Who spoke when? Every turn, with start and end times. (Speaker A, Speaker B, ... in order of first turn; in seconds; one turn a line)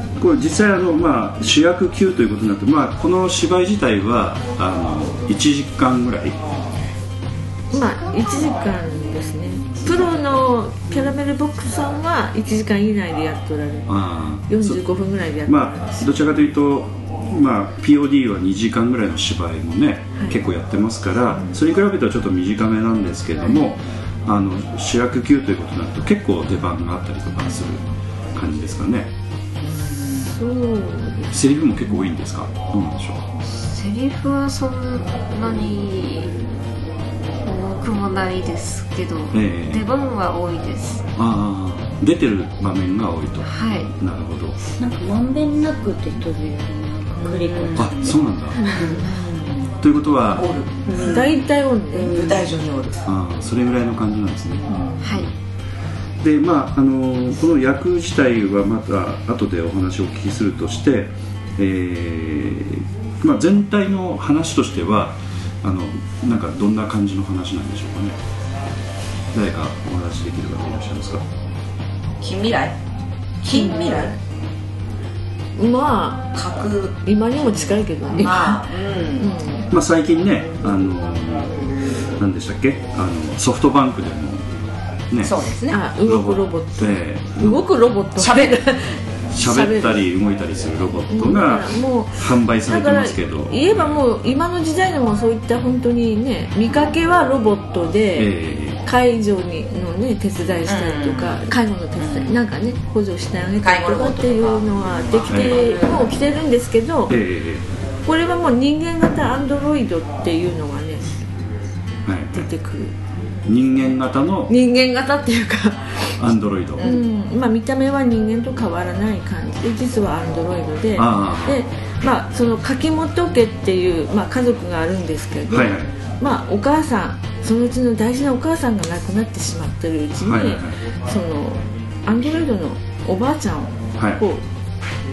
Speaker A: 0.1-6.4
Speaker B: 7.7-16.3
Speaker A: 13.9-14.8
Speaker A: 15.4-27.8
Speaker A: 28.3-29.1
Speaker B: 30.1-31.4
Speaker A: 31.3-33.2
Speaker C: 33.4-36.3
Speaker C: 37.4-41.0
Speaker A: 39.3-39.8
Speaker A: 41.1-44.5
Speaker C: 43.4-43.9
Speaker D: 44.8-48.9
Speaker E: 47.6-48.1
Speaker A: 47.7-48.6
Speaker E: 48.6-49.7
Speaker A: 49.8-50.5
Speaker E: 50.3-51.3
Speaker D: 50.9-51.2
Speaker B: 51.0-52.2
Speaker E: 52.0-53.0
Speaker D: 52.1-52.4
Speaker A: 53.0-55.3
Speaker B: 54.7-55.0
Speaker C: 55.0-55.3
Speaker A: 56.2-68.2
Speaker A: 69.3-71.2
Speaker E: 72.2-72.8
Speaker E: 73.4-74.1
Speaker B: 73.5-74.1
Speaker B: 75.5-76.2
Speaker E: 76.3-79.3
Speaker B: 77.0-78.6
Speaker B: 79.2-79.7
Speaker A: 79.7-81.5
Speaker A: 82.2-84.5
Speaker E: 85.2-85.8
Speaker B: 85.7-90.0
Speaker A: 86.0-87.7
Speaker E: 88.2-88.6
Speaker A: 89.3-94.0
Speaker B: 91.1-98.3
Speaker A: 98.2-98.8
Speaker B: 98.8-107.2
Speaker E: 100.7-101.4
Speaker E: 102.0-102.3
Speaker E: 103.6-106.2
Speaker A: 105.3-105.6
Speaker A: 107.1-107.7
Speaker B: 108.0-111.2
Speaker A: 112.0-112.5
Speaker B: 112.3-113.0
Speaker A: 113.5-114.5
Speaker B: 114.5-116.1
Speaker A: 116.2-116.9
Speaker B: 116.8-134.4
Speaker A: 121.0-121.6
Speaker A: 125.5-125.9
Speaker A: 130.2-130.7